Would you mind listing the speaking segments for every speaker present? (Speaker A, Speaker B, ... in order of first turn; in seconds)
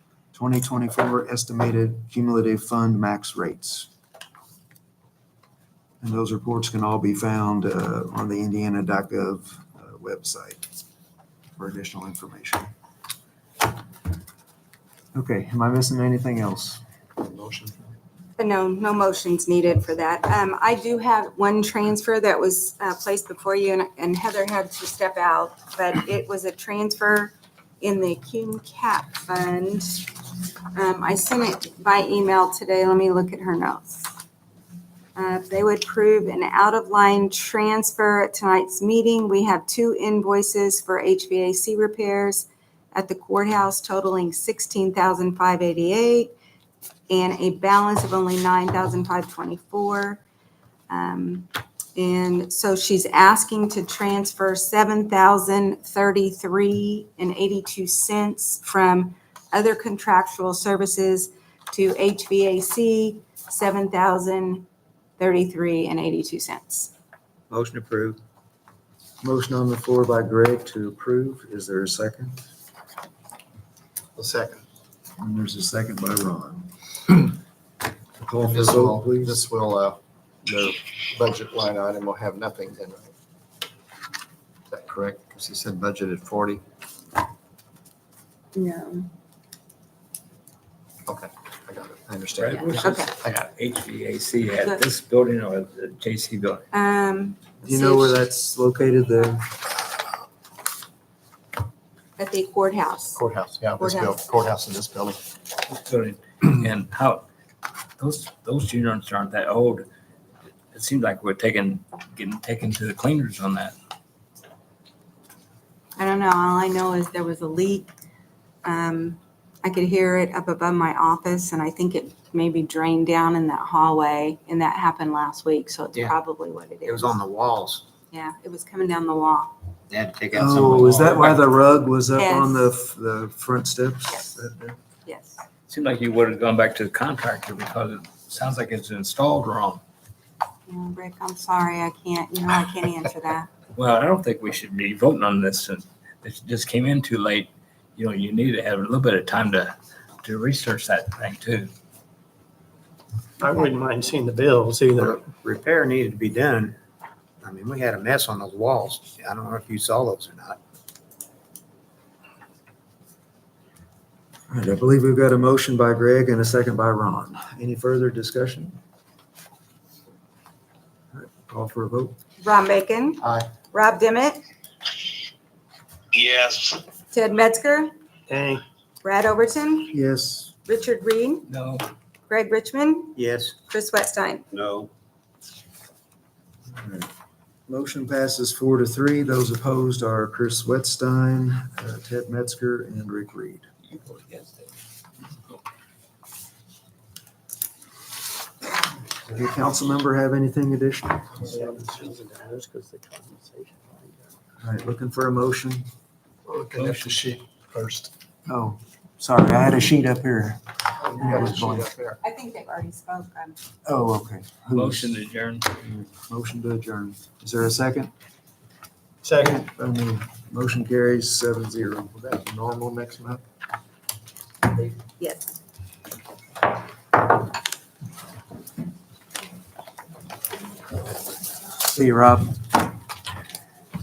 Speaker A: 0.3-3.9, 6.0-10.7, 11.6-12.7, 15.1-16.8, 69.2-72.3, 75.2-76.7, 78.2-79.4, 97.6-99.5, 130.3-134.8, 164.5-168.8, 171.1-172.1, 179.9-180.5, 186.7-187.1, 187.7-193.7, 199.2-201.4, 204.6-205.8, 208.5-211.9, 213.8-215.2, 215.8-218.1, 219.3-222.2, 231.8-232.6
Speaker B: 17.2-17.9, 74.2-74.6, 78.4-83.1, 84.7-86.6, 91.1-92.6, 103.1-105.2, 206.5-208.1, 211.0-212.2, 222.1-223.4
Speaker C: 18.4-30.1, 30.7-34.1, 35.1-46.3, 47.1-50.2, 50.9-64.6, 65.2-66.9, 88.5-89.1, 92.8-93.1, 96.7-98.1, 102.2-103.2, 103.8-104.2, 116.0-117.9, 118.6-127.1, 128.1-129.5, 132.4-132.7, 135.1-135.4, 140.7-143.5, 172.4-174.4, 177.1-177.9, 179.0-179.9, 180.7-181.5, 182.3-183.2, 183.7-184.4, 212.2-213.6, 225.2-225.5
Speaker D: 67.5-68.2, 126.8-127.8, 129.9-131.3, 155.0-156.8, 157.4-160.6, 183.2-183.5, 184.5-184.9
Speaker E: 92.3-96.6, 105.7-107.2, 108.0-109.8, 110.7-113.7, 131.0-131.4, 135.7-139.8, 143.7-151.7, 181.5-181.8, 193.9-194.7, 195.3-195.6, 206.7-207.2, 214.7-215.7
Speaker F: 153.4-155.2, 178.3-178.6, 201.4-204.1, 219.2-219.6